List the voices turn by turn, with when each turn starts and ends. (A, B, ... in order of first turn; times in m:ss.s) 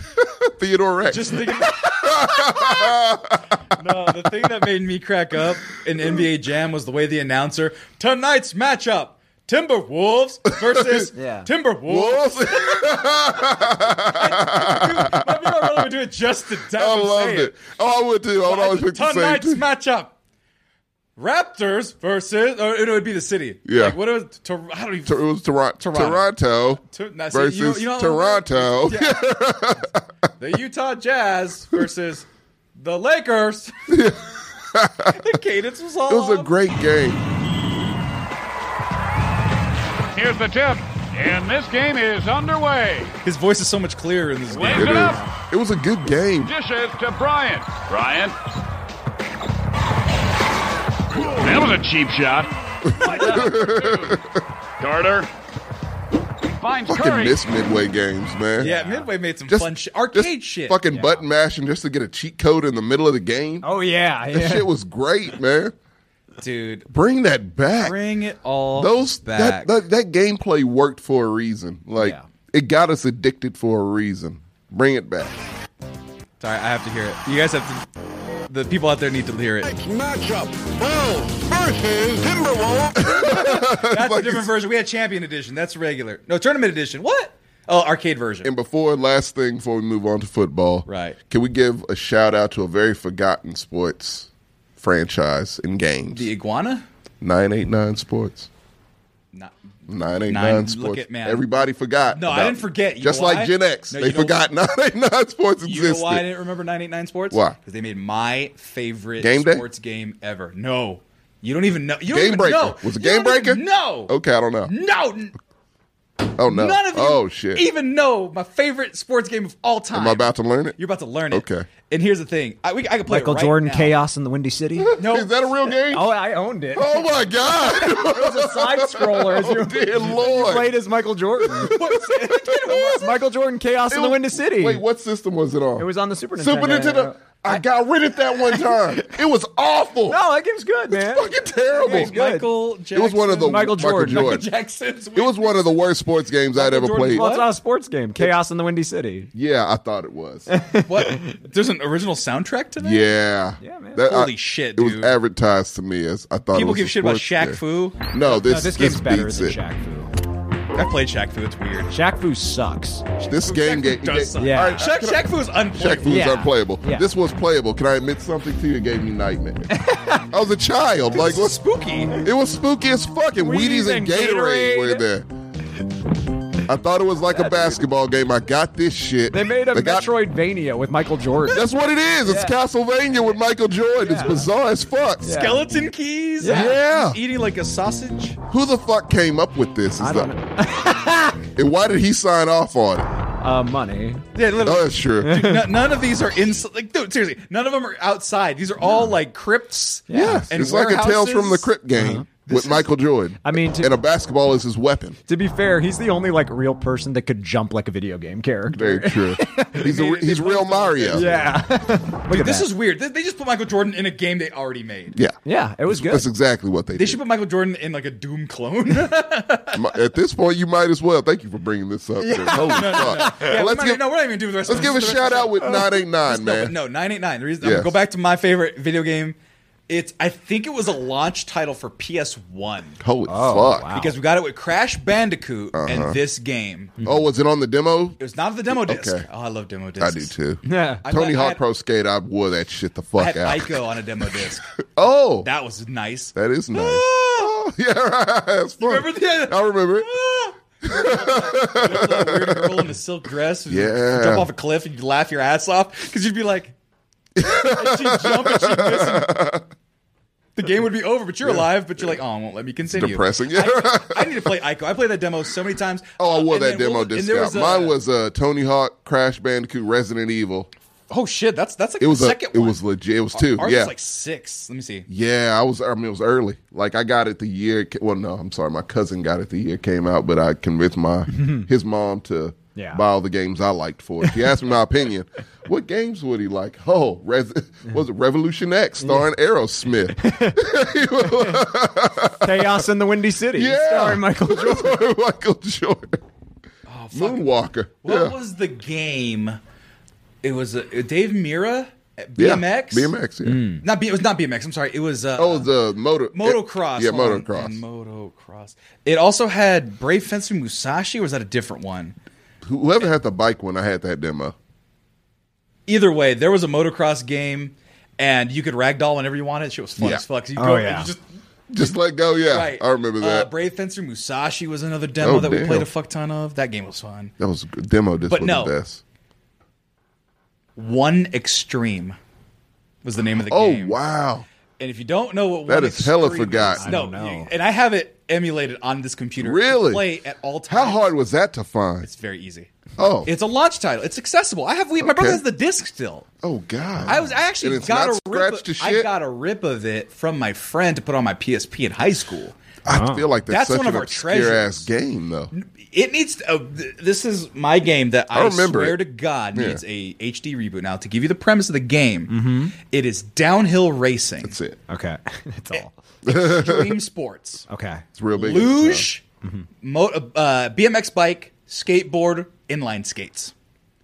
0:00.2-0:03.4 A
0:01.1-0:02.7 B
0:03.8-0:17.6 B
0:10.6-0:11.1 A
0:11.2-0:11.5 C
0:11.9-0:15.8 A
0:16.7-0:19.6 A
0:18.4-0:20.1 B
0:21.2-0:25.2 B
0:23.6-0:24.0 A
0:25.0-0:30.0 A
0:25.8-0:26.3 B
0:26.9-0:29.3 B
0:30.4-0:32.3 B
0:32.8-0:33.7 B
0:33.9-0:35.2 A
0:35.1-0:36.5 B
0:36.1-0:37.2 A
0:40.1-0:43.1 D
0:43.2-0:45.2 B
0:44.5-0:45.2 D
0:44.7-0:46.5 A
0:46.4-0:48.3 D
0:51.1-0:54.2 D
0:52.8-0:54.4 A
0:54.8-0:55.3 D
0:56.5-0:57.4 D
0:56.9-0:58.7 A
0:58.6-0:59.1 C
0:58.6-1:00.8 B
0:59.5-1:03.7 A
1:00.9-1:01.2 C
1:03.6-1:04.7 C
1:04.3-1:05.7 A
1:06.4-1:06.9 B
1:06.9-1:08.0 A
1:07.8-1:09.7 B
1:08.8-1:15.4 A
1:12.0-1:12.2 C
1:16.4-1:17.8 B
1:18.5-1:19.8 B
1:19.8-1:23.0 E
1:23.0-1:24.5 A
1:23.0-1:28.5 B
1:28.4-1:36.3 A
1:30.9-1:31.2 B
1:36.1-1:36.8 B
1:37.2-1:38.5 A
1:39.9-1:46.2 A
1:40.3-1:41.5 B
1:42.1-1:44.4 B
1:45.6-1:54.1 B
1:47.3-1:47.6 A
1:49.2-1:49.6 A
1:52.1-1:54.7 A
1:54.6-1:55.3 B
1:56.4-1:57.6 A
1:56.4-2:03.9 B
1:59.9-2:00.8 A
2:01.3-2:01.7 A
2:03.1-2:04.9 C
2:04.8-2:06.1 A
2:05.0-2:05.3 B
2:05.9-2:11.7 C
2:06.7-2:10.8 A
2:11.4-2:13.1 A
2:11.7-2:13.1 B
2:12.9-2:14.8 C
2:13.9-2:20.2 A
2:15.8-2:17.6 C
2:18.5-2:19.2 C
2:20.1-2:22.5 C
2:20.9-2:22.2 A
2:21.8-2:25.6 B
2:22.9-2:24.5 A
2:23.4-2:24.4 C
2:25.1-2:27.2 A
2:26.5-2:27.5 B
2:27.1-2:29.3 C
2:29.3-2:30.5 A
2:30.5-2:31.3 C
2:30.8-2:33.1 B
2:32.8-2:37.6 A
2:33.6-2:34.0 C
2:34.0-2:35.1 B
2:36.5-2:38.0 B
2:38.1-2:39.6 A
2:38.2-2:40.1 C
2:40.7-2:41.9 B
2:41.9-2:43.0 C
2:43.2-2:49.7 A
2:43.3-2:46.2 B
2:44.4-2:44.8 C
2:46.0-2:47.1 C
2:49.7-2:50.2 C
2:50.3-2:51.6 A
2:51.1-2:52.2 B
2:52.2-2:55.3 A
2:53.4-2:55.0 C
2:56.7-3:00.1 A
2:57.3-2:57.8 C
2:59.3-3:01.6 C
3:01.5-3:05.3 A
3:02.2-3:02.5 C
3:04.0-3:04.4 C
3:05.2-3:05.6 C
3:05.3-3:08.4 B
3:06.4-3:06.7 C
3:06.5-3:07.2 A
3:08.5-3:10.3 A
3:10.0-3:11.4 C
3:11.6-3:13.1 A
3:13.4-3:14.2 C
3:14.3-3:21.7 B
3:14.6-3:15.4 A
3:15.2-3:15.6 C
3:20.1-3:20.5 C
3:20.1-3:25.2 A
3:22.0-3:22.2 C
3:22.4-3:22.9 B
3:23.4-3:23.9 C
3:25.3-3:29.8 C
3:28.7-3:31.3 A
3:29.7-3:31.5 B
3:31.1-3:32.7 C
3:32.3-3:35.1 B
3:35.1-3:37.2 A
3:35.4-3:36.3 C
3:36.9-3:39.9 B
3:39.7-3:44.0 A
3:42.2-3:43.5 C
3:42.6-3:49.4 B
3:44.6-3:46.8 A
3:47.6-3:47.9 A
3:49.9-3:53.0 B
3:53.0-3:53.9 A
3:53.3-3:54.1 C
3:53.9-3:57.0 B
3:55.7-3:56.2 A
3:57.0-3:59.2 A
3:58.2-4:00.3 B
4:00.0-4:03.8 A
4:00.6-4:01.0 C
4:01.0-4:01.6 B
4:03.2-4:04.6 B
4:05.0-4:05.5 A
4:05.4-4:07.6 B
4:06.3-4:10.1 A
4:08.8-4:16.7 B
4:10.8-4:12.9 A
4:13.7-4:14.5 A
4:17.4-4:19.6 A
4:17.4-4:19.3 B
4:20.6-4:28.0 B
4:21.4-4:22.2 A
4:22.9-4:24.4 A
4:26.2-4:30.7 A
4:31.1-4:32.8 B
4:32.0-4:33.9 A
4:33.3-4:35.1 B
4:35.1-4:52.8 A
4:41.3-4:41.7 C
4:42.8-4:43.0 C
4:44.2-4:44.5 C
4:49.0-4:49.3 C
4:50.2-4:50.6 C
4:51.2-4:51.6 C
4:52.4-4:55.0 C
4:53.5-4:56.2 A
4:56.9-4:57.4 B
4:57.1-4:58.3 A
4:58.0-4:59.6 B
5:00.4-5:03.1 B
5:02.4-5:03.6 A
5:03.4-5:03.8 C
5:03.8-5:05.7 B
5:05.4-5:07.8 A
5:06.3-5:12.2 B
5:12.6-5:14.5 A
5:15.9-5:21.2 B
5:20.0-5:20.2 A
5:20.6-5:21.1 C
5:21.7-5:23.5 A
5:22.5-5:27.3 B
5:25.2-5:25.9 A
5:27.4-5:29.0 A
5:28.3-5:28.7 B
5:30.8-5:32.2 B
5:33.0-5:34.0 B
5:33.5-5:34.4 A
5:34.8-5:41.1 B
5:35.7-5:36.9 A
5:36.8-5:37.5 C
5:39.4-5:40.0 A
5:40.7-5:42.1 A
5:42.0-5:42.7 B
5:43.0-5:43.3 A
5:43.2-5:46.3 B
5:45.0-5:45.4 A
5:46.4-5:49.1 A
5:47.1-5:52.6 B
5:52.8-5:55.5 A
5:52.9-5:53.3 C
5:53.5-5:54.8 B
5:55.5-6:04.6 B
5:58.3-5:59.0 A
5:59.5-5:59.8 A
6:02.3-6:02.7 C
6:04.4-6:04.8 A
6:04.9-6:06.0 C
6:05.7-6:07.6 B
6:06.2-6:07.0 A
6:07.7-6:08.0 C
6:08.2-6:09.1 A
6:08.3-6:09.2 B
6:09.8-6:13.5 B